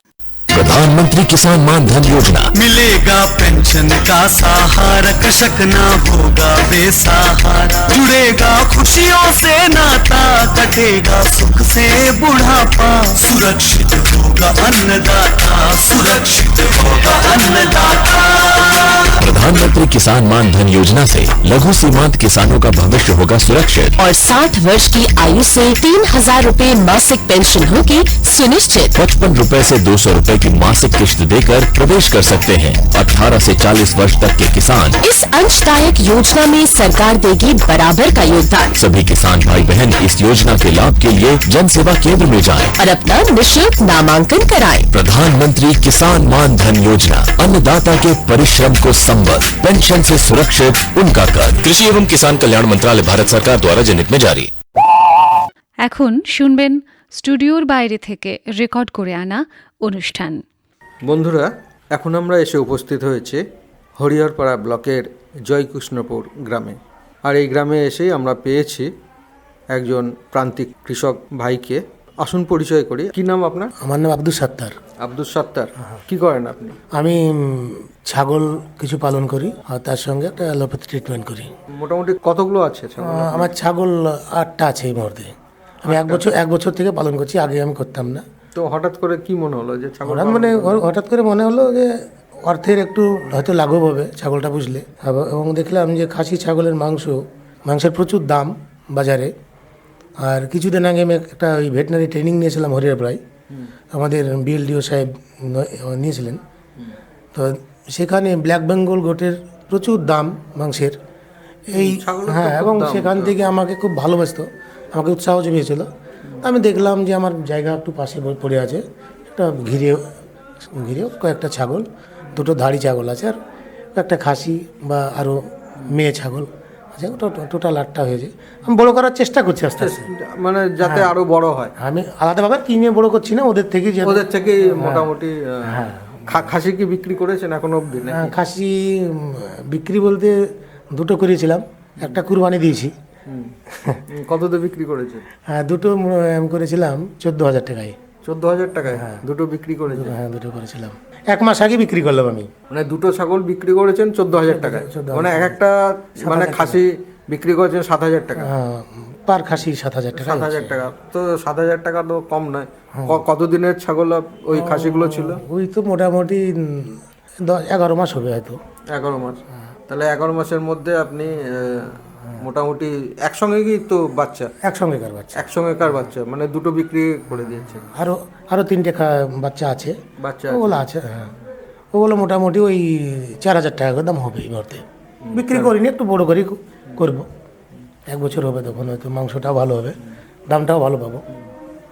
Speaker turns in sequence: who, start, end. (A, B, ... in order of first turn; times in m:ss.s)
0:00.5-0:02.5 A
0:02.6-0:19.0 B
0:19.2-0:24.0 A
0:24.0-0:28.9 C
0:28.9-0:35.0 A
0:35.0-0:38.7 C
0:38.8-0:42.8 A
0:42.8-0:44.9 C
0:44.9-0:54.5 A
0:55.8-1:00.4 D
1:01.1-1:03.4 E
1:04.0-1:08.9 E
1:09.7-1:13.7 E
1:13.8-1:14.7 F
1:15.0-1:16.8 E
1:16.9-1:21.5 F
1:21.8-1:23.5 E
1:23.0-1:25.3 F
1:25.8-1:28.2 F
1:25.9-1:26.2 E
1:28.6-1:30.8 E
1:30.0-1:39.3 F
1:40.2-1:43.2 F
1:43.9-1:46.4 F
1:47.3-1:51.0 F
1:51.7-1:55.9 F
1:51.7-1:53.4 E
1:56.4-2:00.0 F
2:00.7-2:03.4 F
2:03.9-2:10.1 F
2:09.8-2:11.7 E
2:10.8-2:11.1 F
2:11.8-2:15.1 F
2:14.0-2:18.3 E
2:15.7-2:16.5 F
2:18.1-2:20.4 F
2:20.9-2:22.9 F
2:23.3-2:23.5 E
2:23.7-2:24.0 F
2:24.1-2:25.2 E
2:25.5-2:28.0 F
2:28.2-2:30.1 E
2:28.9-2:29.2 F
2:29.9-2:32.5 F
2:32.7-2:38.5 E
2:34.3-2:35.6 F
2:36.2-2:36.8 F
2:38.4-2:40.7 F
2:40.1-2:45.4 E
2:42.9-2:43.2 F
2:44.5-2:48.6 F
2:48.9-2:54.5 E
2:54.6-2:55.5 F
2:55.4-2:57.9 E
2:57.9-3:00.0 F
3:00.2-3:00.8 E
3:00.5-3:01.3 F
3:01.9-3:07.3 F
3:05.2-3:05.7 E
3:08.1-3:10.0 F
3:10.5-3:11.2 F